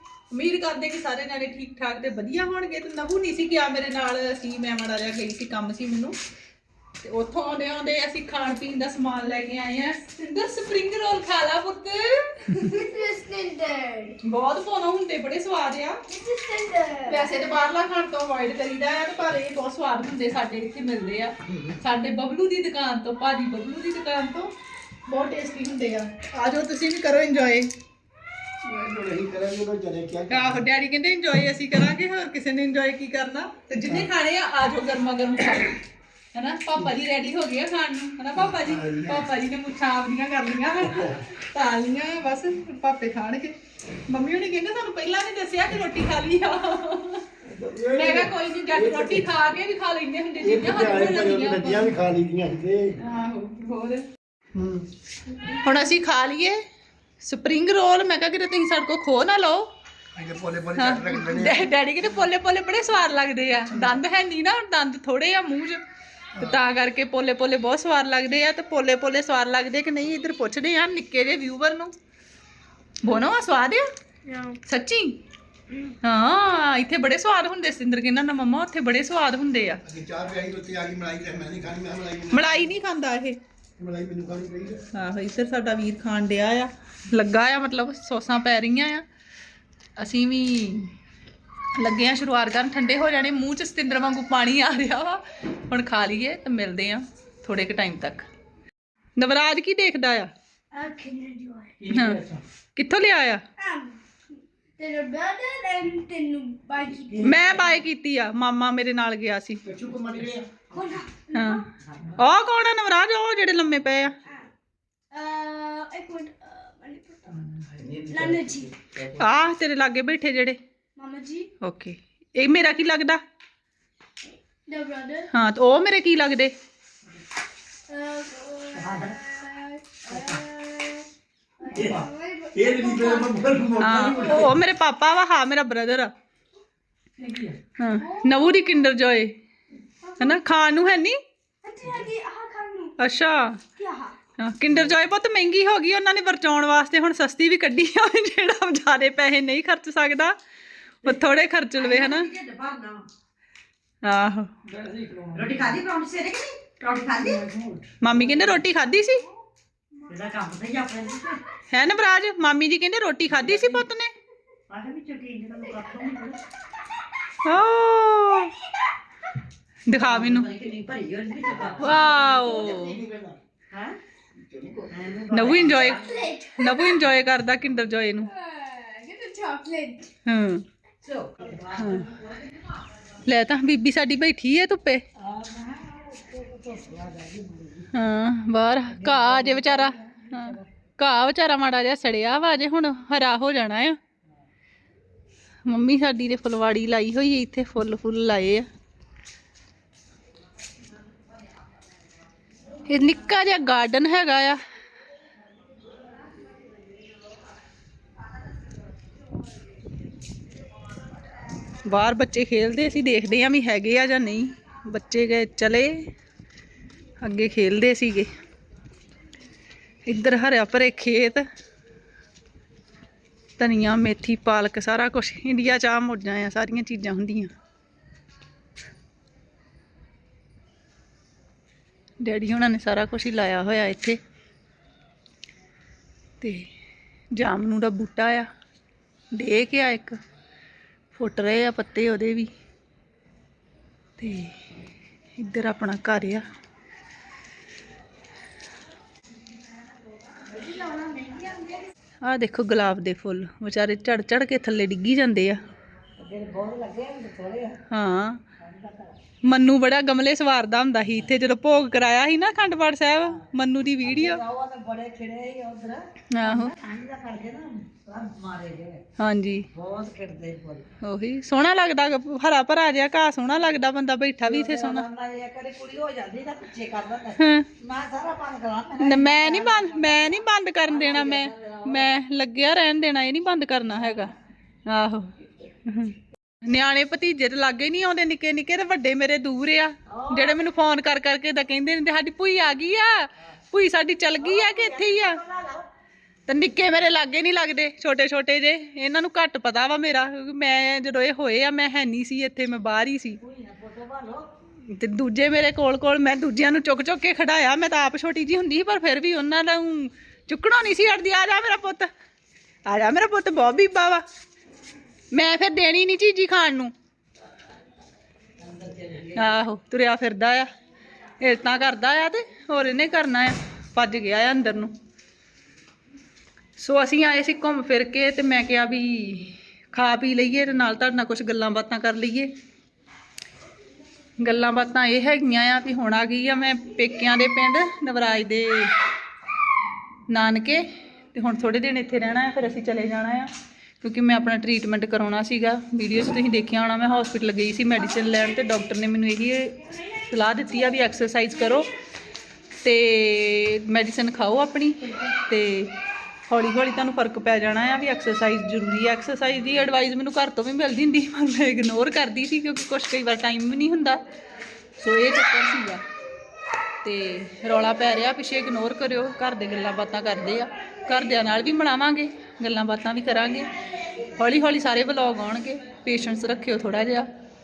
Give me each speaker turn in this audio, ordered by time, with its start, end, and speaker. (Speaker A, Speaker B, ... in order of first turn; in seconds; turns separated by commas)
Speaker A: 0.3-6.1, Speaker A: 7.0-12.9, Speaker B: 12.6-14.2, Speaker A: 14.2-16.0, Speaker B: 16.1-17.4, Speaker A: 17.1-24.5, Speaker A: 25.1-27.7, Speaker C: 28.6-30.6, Speaker A: 30.3-35.8, Speaker A: 36.3-47.3, Speaker C: 38.4-39.2, Speaker C: 47.4-49.3, Speaker A: 47.9-51.9, Speaker C: 50.4-52.9, Speaker A: 53.0-54.1, Speaker C: 54.5-54.9, Speaker A: 55.5-56.6, Speaker A: 57.2-59.7, Speaker C: 60.1-61.7, Speaker A: 60.8-65.8, Speaker A: 66.4-71.9, Speaker A: 73.0-73.8, Speaker B: 74.2-74.6, Speaker A: 74.7-75.2, Speaker A: 76.0-79.8, Speaker C: 79.8-82.7, Speaker A: 82.3-83.4, Speaker C: 83.8-84.8, Speaker A: 84.9-89.0, Speaker A: 90.0-90.9, Speaker A: 91.7-98.3, Speaker A: 99.2-100.3, Speaker B: 100.7-101.8, Speaker C: 101.8-102.4, Speaker A: 101.9-103.4, Speaker B: 103.6-104.0, Speaker B: 104.8-107.6, Speaker A: 107.2-109.6, Speaker C: 109.7-110.5, Speaker B: 110.7-111.6, Speaker A: 111.3-111.6, Speaker A: 112.2-114.2, Speaker B: 115.1-118.7, Speaker A: 119.0-120.6, Speaker B: 121.0-121.5, Speaker A: 121.6-123.2, Speaker B: 124.7-125.3, Speaker A: 125.3-126.5, Speaker B: 127.9-131.1, Speaker D: 128.7-129.2, Speaker D: 130.1-130.4, Speaker B: 131.6-133.4, Speaker C: 131.7-134.5, Speaker A: 133.8-136.1, Speaker D: 137.2-137.6, Speaker A: 137.8-139.3, Speaker B: 138.1-138.4, Speaker A: 140.2-141.2, Speaker B: 141.6-142.9, Speaker A: 143.0-143.6, Speaker B: 143.8-144.1, Speaker A: 144.4-150.3, Speaker A: 151.0-152.3, Speaker D: 151.8-153.0, Speaker A: 154.0-154.5, Speaker C: 154.7-155.5, Speaker D: 155.3-158.5, Speaker A: 158.0-159.2, Speaker D: 160.1-161.4, Speaker A: 161.7-164.1, Speaker D: 164.7-166.4, Speaker A: 167.4-168.5, Speaker A: 169.9-170.5, Speaker D: 170.0-172.2, Speaker C: 171.5-173.4, Speaker A: 171.8-173.0, Speaker D: 173.7-174.0, Speaker C: 174.3-175.5, Speaker D: 174.9-176.1, Speaker A: 175.3-178.3, Speaker B: 176.0-177.0, Speaker B: 178.3-180.1, Speaker A: 180.2-180.6, Speaker D: 181.0-182.7, Speaker A: 181.7-182.1, Speaker A: 183.2-185.0, Speaker D: 185.2-187.9, Speaker A: 187.9-194.0, Speaker D: 188.9-190.7, Speaker A: 195.7-198.7, Speaker A: 202.8-204.6, Speaker A: 211.8-216.1, Speaker A: 217.2-218.3, Speaker A: 220.0-221.4, Speaker A: 223.6-227.5, Speaker A: 232.2-234.2, Speaker A: 236.4-236.7, Speaker A: 237.3-238.5, Speaker A: 239.3-240.2, Speaker A: 241.1-242.5, Speaker A: 244.2-244.6, Speaker A: 245.3-246.4, Speaker D: 250.3-251.8, Speaker A: 252.2-255.6, Speaker D: 256.2-257.8, Speaker A: 257.9-258.4, Speaker D: 258.6-259.2, Speaker A: 259.4-264.4, Speaker D: 264.0-269.0, Speaker A: 266.3-266.7, Speaker A: 269.2-269.6, Speaker D: 269.7-270.9, Speaker A: 271.0-275.1, Speaker D: 274.4-282.1, Speaker A: 277.4-277.7, Speaker A: 279.0-284.3, Speaker A: 284.9-285.3, Speaker A: 285.8-295.4, Speaker D: 290.1-290.6, Speaker D: 294.4-295.9, Speaker A: 296.5-303.4, Speaker D: 303.4-304.5, Speaker A: 304.9-312.1, Speaker A: 312.9-314.2, Speaker A: 315.3-316.9, Speaker D: 318.6-319.5, Speaker A: 319.3-320.7, Speaker A: 321.4-324.9, Speaker A: 326.8-332.5, Speaker A: 334.4-338.9, Speaker A: 340.3-351.9, Speaker A: 352.8-355.9, Speaker A: 356.5-364.2, Speaker A: 365.0-366.0, Speaker A: 367.0-373.7, Speaker A: 374.3-377.3